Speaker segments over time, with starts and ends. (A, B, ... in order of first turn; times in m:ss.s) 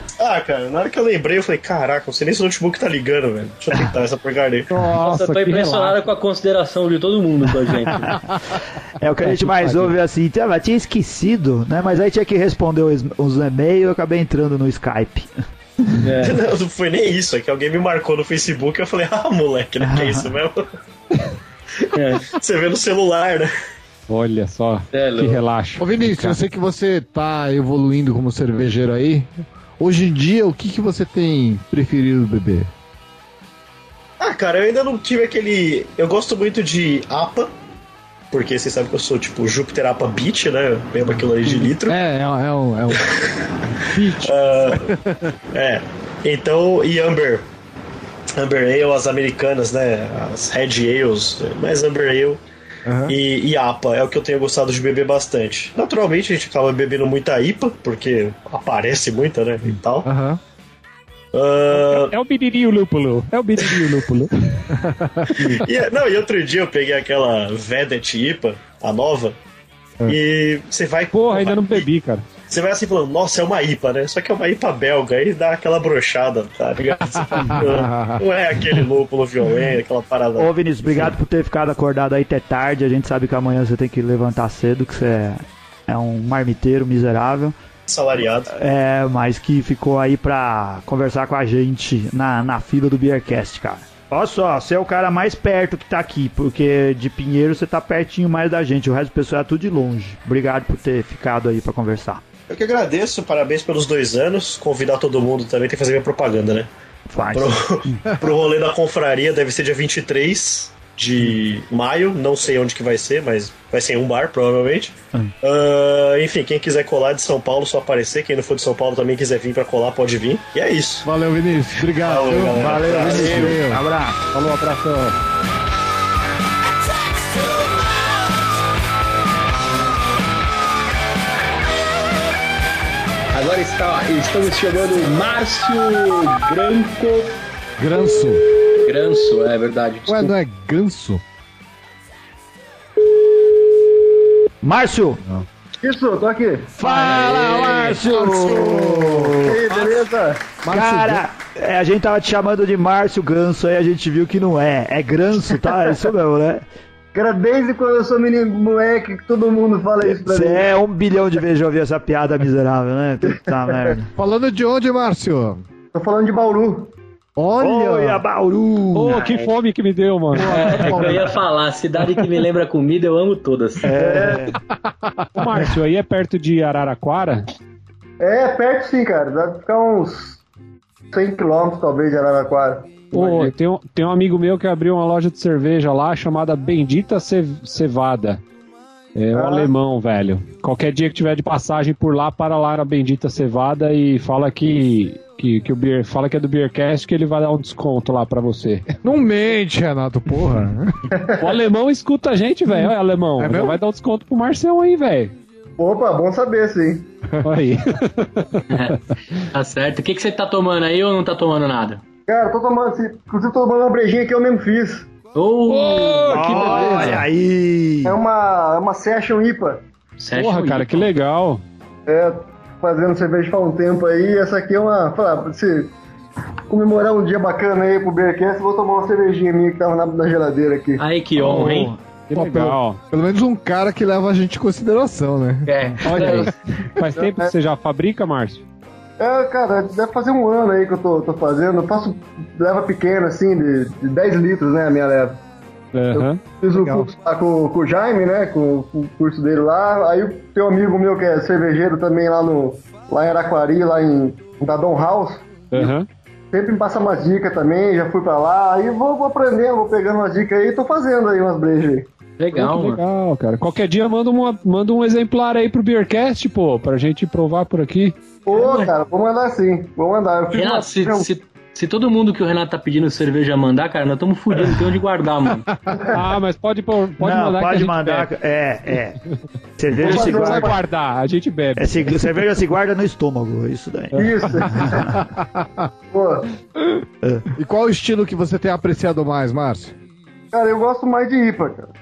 0:00.2-0:04.7 A
0:04.7-0:06.0 B
0:05.0-0:08.1 C
0:09.0-0:15.3 D
0:09.3-0:09.9 B
0:16.0-0:16.4 C
0:16.2-0:20.6 A
0:19.8-0:20.3 D
0:21.9-0:22.2 C
0:22.3-0:23.5 A
0:24.1-0:26.3 B
0:24.9-0:25.4 C
0:25.8-0:32.7 E
0:34.2-0:37.5 A
0:38.3-0:42.0 A
0:41.6-0:43.0 E
0:43.9-0:45.3 E
0:44.2-0:44.9 A
0:45.5-0:47.4 A
0:48.4-0:52.4 A
0:52.8-0:53.1 E
0:53.1-1:00.1 A
0:59.7-1:00.4 E
1:01.3-1:02.1 A
1:01.7-1:04.6 B
1:04.8-1:05.3 E
1:05.4-1:09.3 A
1:10.1-1:11.8 A
1:11.1-1:12.2 B
1:12.5-1:21.1 A
1:17.3-1:18.2 E
1:20.4-1:27.6 D
1:27.9-1:28.5 A
1:28.5-1:42.2 D
1:42.5-1:46.7 A
1:47.1-1:48.0 D
1:47.3-2:01.1 A
2:01.0-2:03.8 E
2:02.0-2:03.5 A
2:02.5-2:04.2 D
2:03.0-2:03.5 C
2:04.3-2:05.1 B
2:13.3-2:17.4 C
2:17.8-2:18.4 E
2:18.8-2:20.4 C
2:20.1-2:21.2 E
2:24.6-2:25.2 D
2:25.8-2:26.8 F
2:26.8-2:29.6 D
2:26.8-2:30.0 E
2:29.4-2:30.5 F
2:30.6-2:31.2 E
2:30.7-2:36.6 D
2:37.1-2:40.7 F
2:40.0-2:44.1 D
2:43.3-2:43.9 F
2:44.1-2:45.6 E
2:45.9-2:46.9 F
2:47.4-2:48.2 E
2:47.6-2:49.2 D
2:48.9-2:51.2 B
2:49.2-2:49.5 C
2:50.3-2:51.3 E
2:50.5-2:53.8 C
2:53.8-2:54.6 D
2:54.0-2:54.4 F
2:55.3-2:57.4 B
2:58.2-3:00.4 F
3:01.1-3:03.5 F
3:03.1-3:08.4 B
3:09.1-3:19.0 B
3:09.3-3:09.7 F
3:19.0-3:21.0 E
3:21.1-3:21.5 F
3:21.4-3:25.3 B
3:22.7-3:23.8 E
3:25.8-3:27.1 F
3:27.4-3:28.9 B
3:28.7-3:28.9 C
3:29.5-3:32.0 C
3:32.3-3:35.1 F
3:35.3-3:37.2 C
3:35.7-3:37.2 B
3:36.3-3:38.1 D
3:38.0-3:39.8 F
3:40.2-3:41.1 C
3:40.3-3:41.6 B
3:42.0-3:45.9 F
3:46.7-3:51.0 F
3:51.0-3:51.9 C
3:51.4-3:52.0 D
3:52.3-3:53.0 B
3:52.3-3:56.5 E
3:55.6-3:56.5 C
3:56.0-3:58.6 B
3:57.2-3:57.5 F
3:59.2-4:05.4 F
4:05.9-4:07.1 B
4:06.1-4:15.9 F
4:15.7-4:16.1 B
4:16.5-4:22.1 F
4:22.4-4:23.0 C
4:22.5-4:28.2 B
4:28.4-4:31.3 F
4:28.5-4:28.9 C
4:30.5-4:35.6 C
4:36.1-4:38.3 B
4:37.2-4:39.2 D
4:39.8-4:40.8 D
4:40.0-4:42.2 B
4:40.0-4:40.8 F
4:41.8-4:45.0 D
4:44.1-4:45.1 F
4:44.9-4:45.9 E
4:46.1-4:46.5 F
4:47.6-4:49.9 E
4:50.5-4:51.9 F